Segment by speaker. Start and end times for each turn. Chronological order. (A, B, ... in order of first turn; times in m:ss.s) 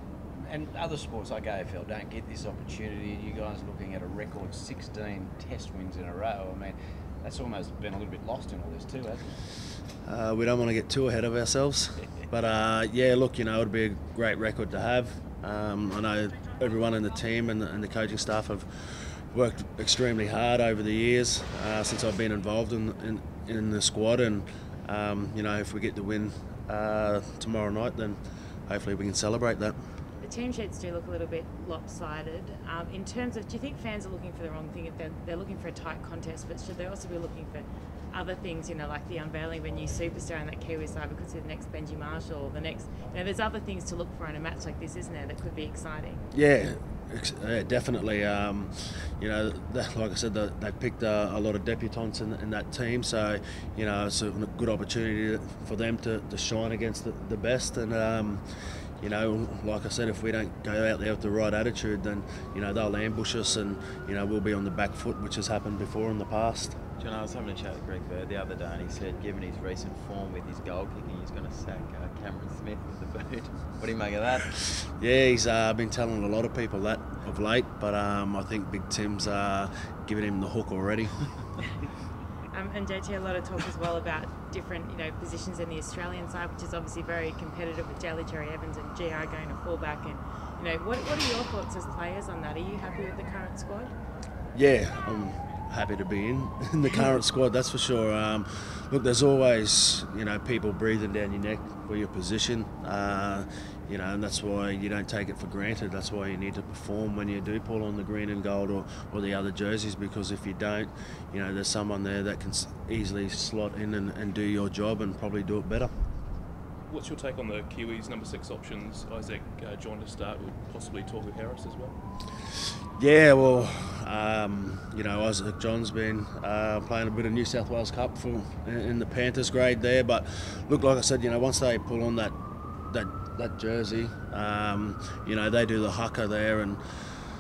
0:00.4-0:09.4 A
0:10.0-0:29.8 B
0:30.2-0:46.3 C
0:46.3-0:58.4 B
0:59.0-1:06.8 B
1:07.0-1:14.5 D
1:14.6-1:21.2 B
1:22.5-1:33.9 C
1:34.5-1:55.9 B
1:56.9-2:02.0 E
2:03.0-2:12.3 B
2:12.9-2:16.8 B